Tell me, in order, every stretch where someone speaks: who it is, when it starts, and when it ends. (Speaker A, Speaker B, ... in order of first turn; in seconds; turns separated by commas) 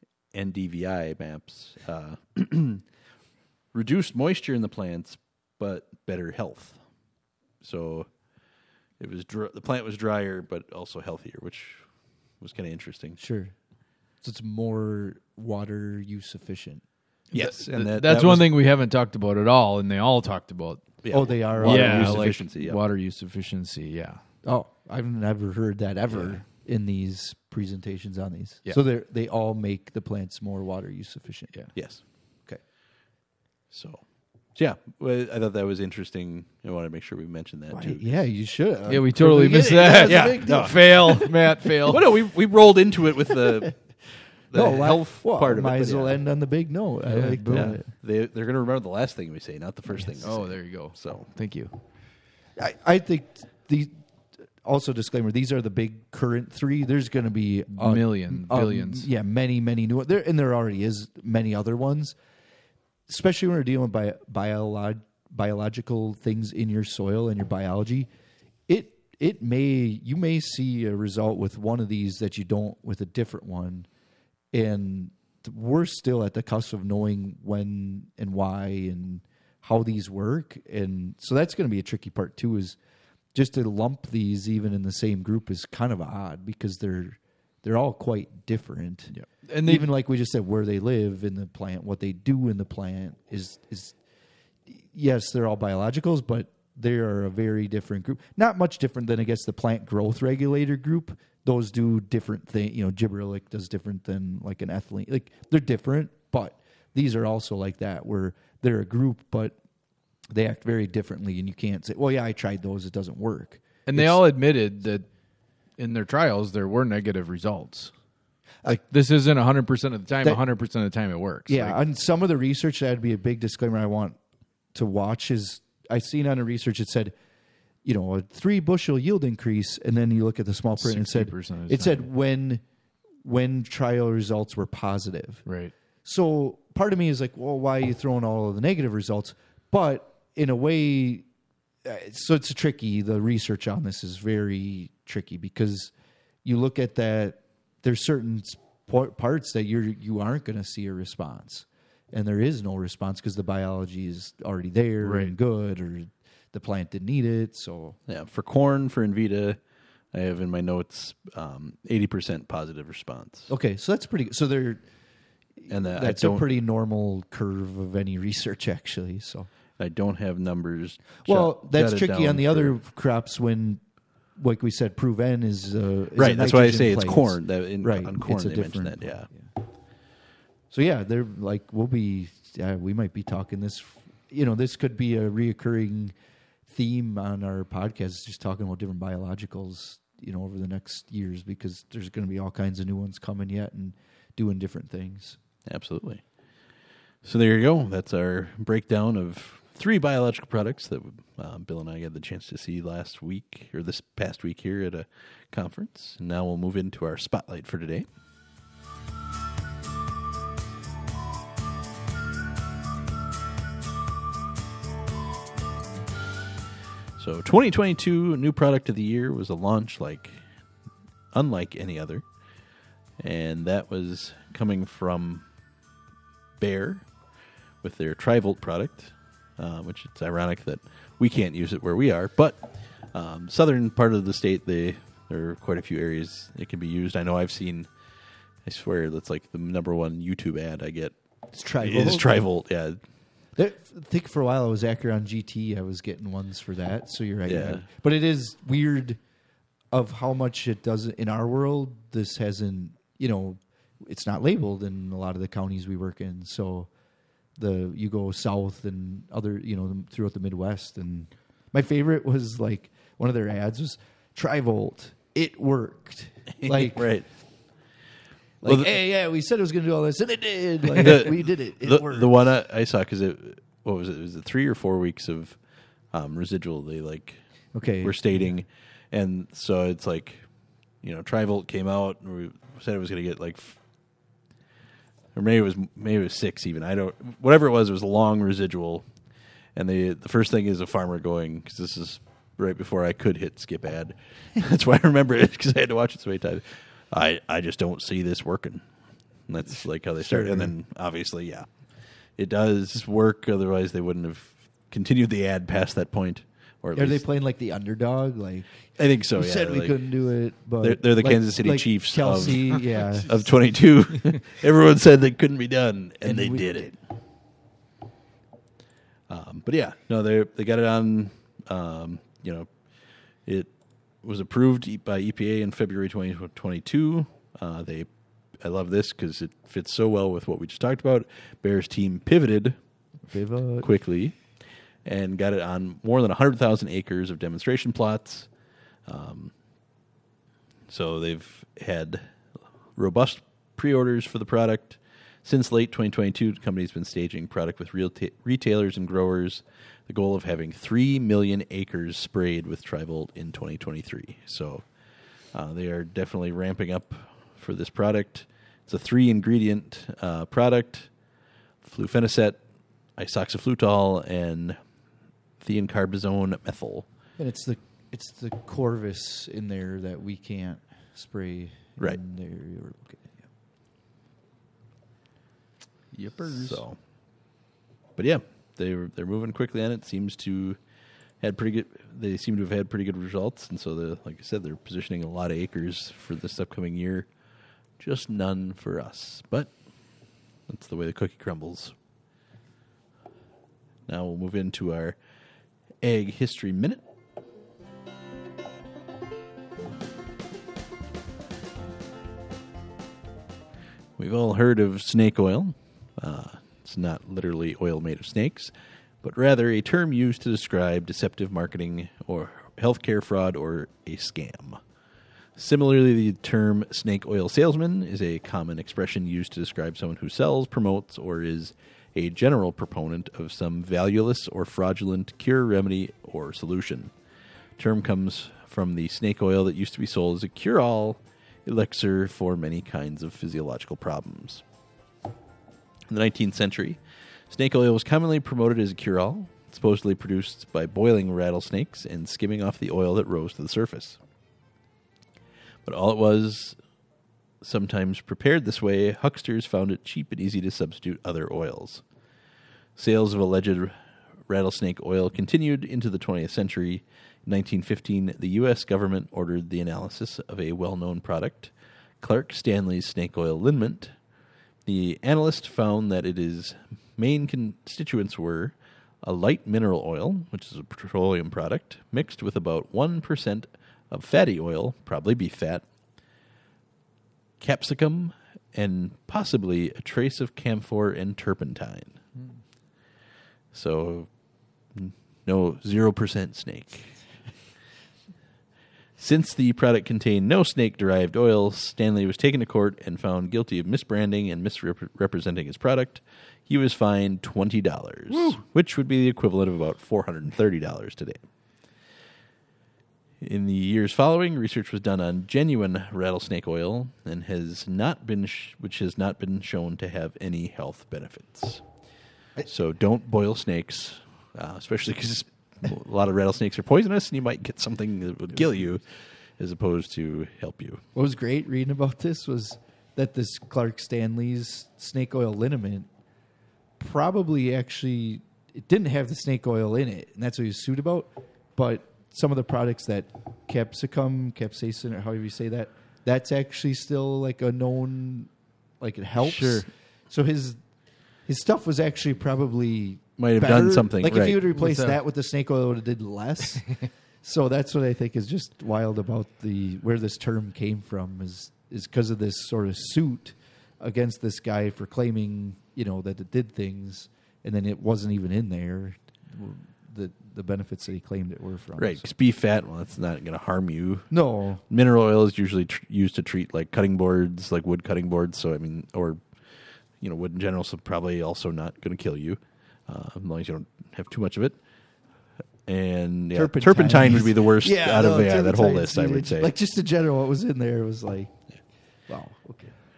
Speaker A: 0.3-2.9, Speaker A: 3.7-6.8, Speaker A: 7.6-8.4, Speaker A: 9.0-13.2, Speaker B: 13.2-13.6, Speaker B: 14.2-16.9, Speaker C: 17.3-21.0, Speaker A: 17.3-18.5, Speaker A: 21.0-22.8, Speaker B: 21.1-22.4, Speaker C: 21.6-24.2, Speaker B: 24.4-32.6, Speaker C: 26.1-26.4, Speaker A: 31.7-32.0, Speaker A: 33.7-38.2, Speaker B: 37.7-41.0, Speaker C: 38.9-42.0, Speaker A: 39.4-46.2, Speaker B: 44.5-47.9, Speaker C: 47.1-47.8, Speaker A: 47.5-51.3, Speaker B: 49.9-50.4, Speaker C: 50.2-51.8, Speaker B: 52.5-62.1, Speaker C: 57.7-59.1, Speaker B: 63.1-68.1, Speaker B: 68.7-73.9, Speaker B: 74.5-82.8, Speaker B: 83.3-94.0, Speaker C: 89.1-89.9, Speaker B: 94.7-109.6, Speaker B: 110.3-114.2, Speaker C: 113.8-115.1, Speaker C: 115.8-117.9, Speaker C: 118.6-121.8, Speaker B: 121.5-124.2, Speaker B: 124.7-127.1, Speaker B: 127.8-132.6, Speaker C: 130.8-132.1, Speaker B: 133.2-135.4, Speaker C: 135.4-135.7, Speaker B: 136.0-141.2, Speaker B: 141.8-145.9, Speaker B: 146.4-158.0, Speaker C: 155.0-155.3, Speaker A: 158.1-159.6, Speaker A: 160.1-163.5, Speaker B: 163.5-164.8, Speaker B: 165.6-169.5, Speaker A: 165.7-166.4, Speaker A: 169.8-172.8, Speaker B: 171.2-173.8, Speaker B: 174.3-179.5, Speaker A: 176.2-179.3, Speaker B: 180.7-186.1, Speaker B: 186.7-195.4, Speaker A: 195.7-196.2, Speaker A: 197.2-208.1, Speaker A: 217.2-220.4, Speaker A: 221.3-222.3, Speaker A: 223.2-225.4, Speaker A: 226.6-227.1, Speaker A: 227.8-237.9, Speaker A: 238.6-241.2, Speaker B: 241.5-242.4, Speaker A: 241.8-243.0, Speaker B: 243.6-249.2, Speaker A: 247.4-247.8, Speaker B: 249.9-256.9, Speaker B: 257.6-267.1, Speaker A: 266.6-267.9, Speaker B: 268.6-272.5, Speaker A: 268.6-268.9, Speaker A: 270.9-275.6, Speaker A: 276.1-277.4, Speaker B: 277.7-278.1, Speaker A: 278.0-280.5, Speaker A: 281.0-283.8, Speaker A: 285.3-289.0, Speaker A: 289.7-298.8, Speaker A: 299.5-301.7, Speaker B: 300.2-300.7, Speaker A: 302.4-307.2, Speaker B: 306.9-313.4, Speaker A: 309.0-310.0, Speaker A: 310.8-316.9, Speaker B: 316.2-316.9, Speaker A: 319.3-322.8, Speaker A: 323.4-323.7, Speaker A: 324.2-328.1, Speaker A: 328.6-332.8, Speaker B: 333.3-333.9, Speaker A: 333.8-338.5, Speaker A: 339.1-339.5, Speaker A: 340.9-354.9, Speaker A: 355.5-361.1, Speaker A: 361.8-362.6, Speaker A: 363.2-364.8, Speaker A: 365.6-367.1, Speaker B: 367.4-373.5, Speaker C: 376.1-376.8, Speaker A: 376.4-377.0, Speaker A: 378.2-380.8, Speaker A: 381.4-387.3, Speaker A: 388.0-389.7, Speaker A: 390.7-391.9, Speaker A: 394.1-395.2, Speaker A: 396.0-397.0, Speaker A: 404.2-414.8, Speaker A: 415.6-427.1, Speaker A: 427.8-434.6, Speaker A: 436.1-444.2, Speaker A: 445.8-446.8, Speaker A: 447.6-452.0, Speaker A: 452.9-453.9, Speaker A: 454.5-464.1, Speaker A: 464.9-475.8, Speaker A: 477.6-482.2, Speaker A: 483.7-484.3, Speaker A: 484.9-487.3, Speaker A: 489.2-501.4, Speaker A: 503.4-511.8, Speaker A: 512.6-521.0, Speaker B: 521.1-526.1, Speaker B: 527.0-540.8, Speaker C: 539.4-539.9, Speaker B: 541.4-562.2, Speaker A: 543.4-544.6, Speaker C: 544.7-545.2, Speaker A: 562.0-564.4, Speaker B: 564.3-564.8, Speaker A: 564.9-569.6, Speaker A: 570.2-574.8, Speaker A: 575.9-579.7, Speaker B: 576.5-581.6, Speaker B: 582.3-582.9